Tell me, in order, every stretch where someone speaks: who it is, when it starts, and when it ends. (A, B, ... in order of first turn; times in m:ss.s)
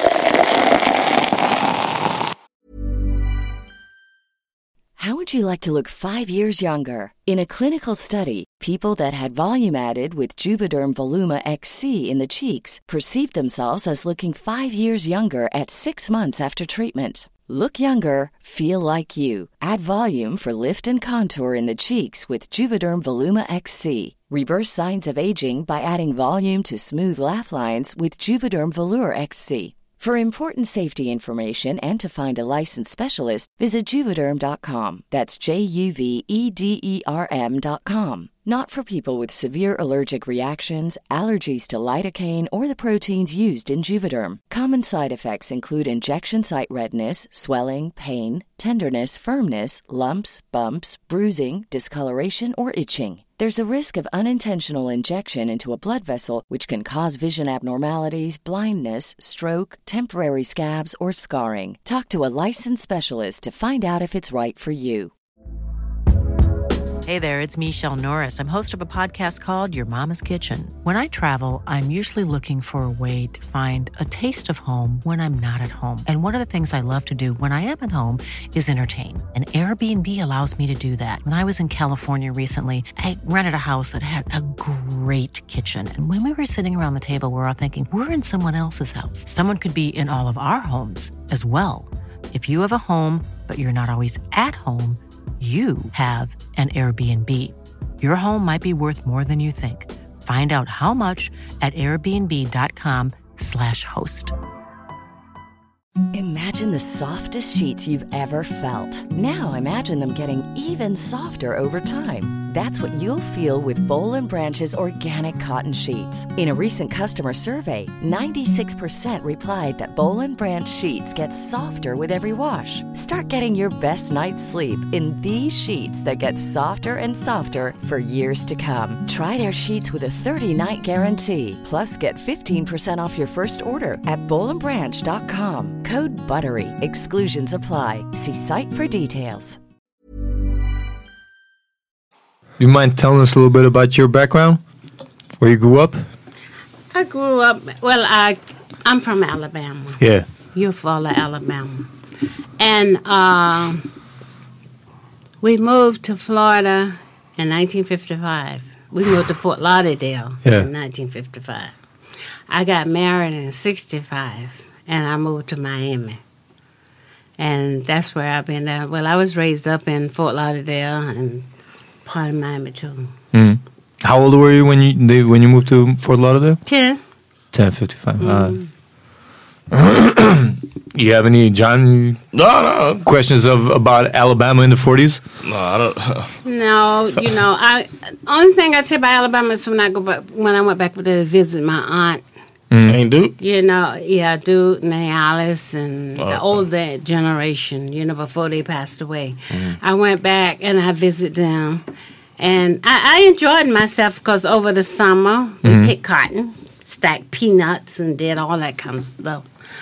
0:05.0-1:05.1 A
1:07.1-1:44.3 B
1:46.1-2:19.6 A
2:22.6-2:24.6 C
2:25.4-2:26.0 C
2:26.9-2:30.0 D
2:30.0-2:30.3 C
2:30.6-2:31.9 D
2:32.6-2:33.9 D
2:35.4-2:41.7 D
2:42.5-2:46.2 D
2:47.4-2:51.5 D
2:52.0-2:53.1 D
2:53.3-2:56.6 C
2:56.7-2:57.0 D
2:57.5-2:58.6 C
2:58.2-2:58.7 D
2:59.7-3:02.2 C
3:02.3-3:03.0 E
3:03.0-3:05.2 C
3:05.4-3:06.3 E
3:06.4-3:12.2 D
3:12.7-3:13.0 C
3:12.9-3:13.4 E
3:13.4-3:21.8 D
3:16.2-3:16.6 E
3:22.4-3:29.4 D
3:25.6-3:25.9 C